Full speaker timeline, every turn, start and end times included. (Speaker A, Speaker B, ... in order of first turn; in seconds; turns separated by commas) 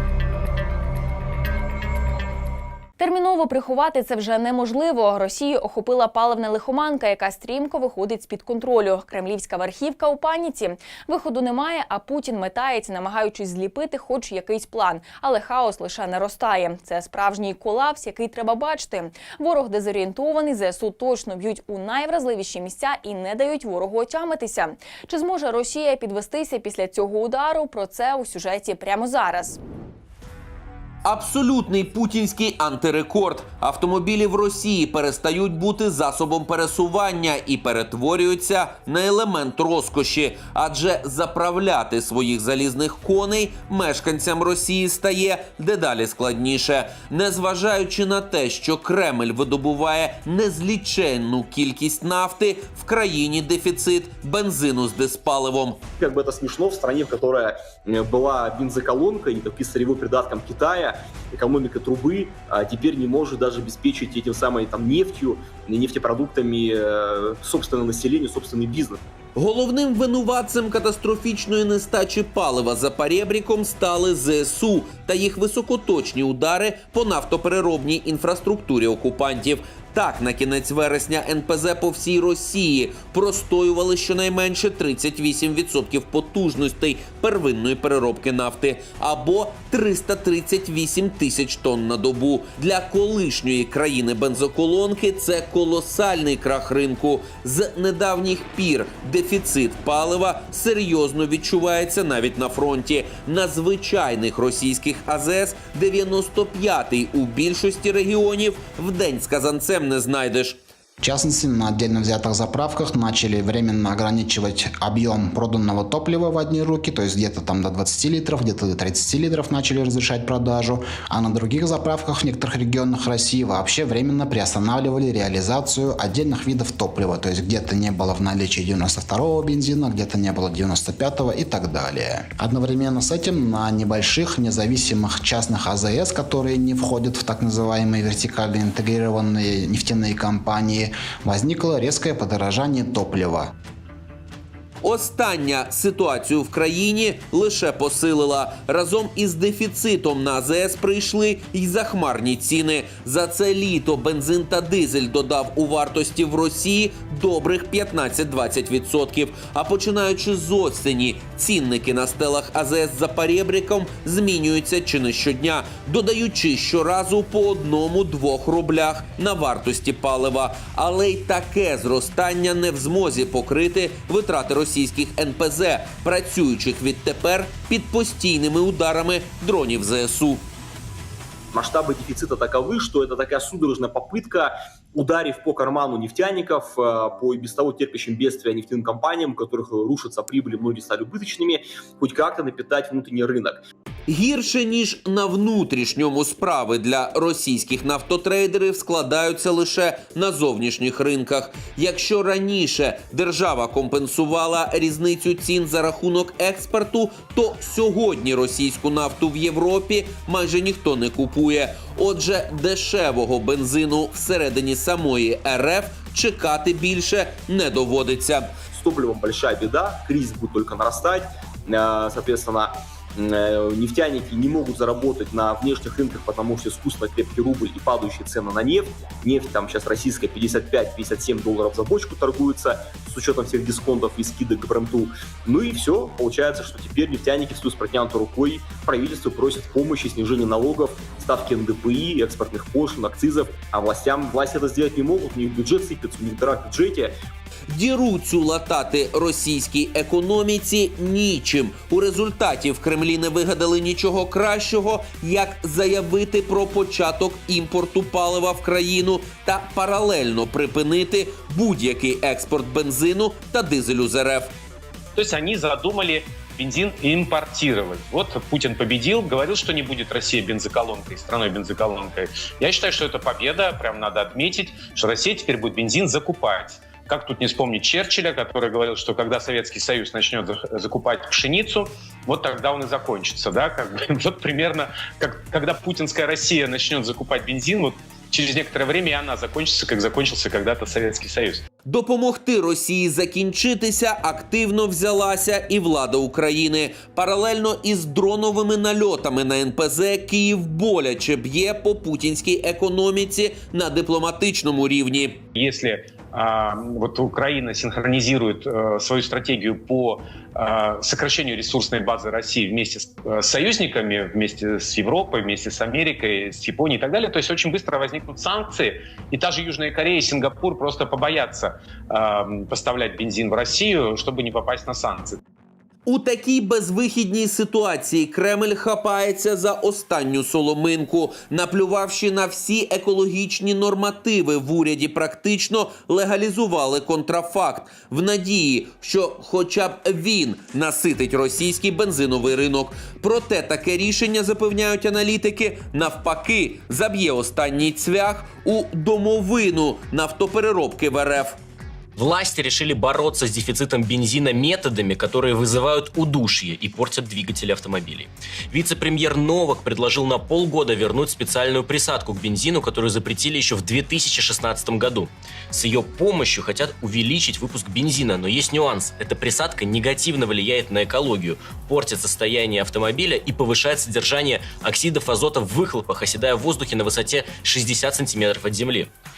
Speaker A: 3.0-29.6, Speaker B: 31.1-55.8, Speaker C: 56.0-69.0, Speaker B: 69.4-110.6, Speaker D: 111.0-143.5, Speaker B: 144.8-180.4, Speaker C: 181.5-193.6, Speaker B: 194.1-218.5, Speaker C: 218.7-247.1, Speaker B: 247.7-264.5, Speaker E: 265.2-291.6, Speaker B: 291.9-305.4, Speaker E: 305.5-325.4, Speaker B: 326.1-351.6, Speaker F: 352.2-379.1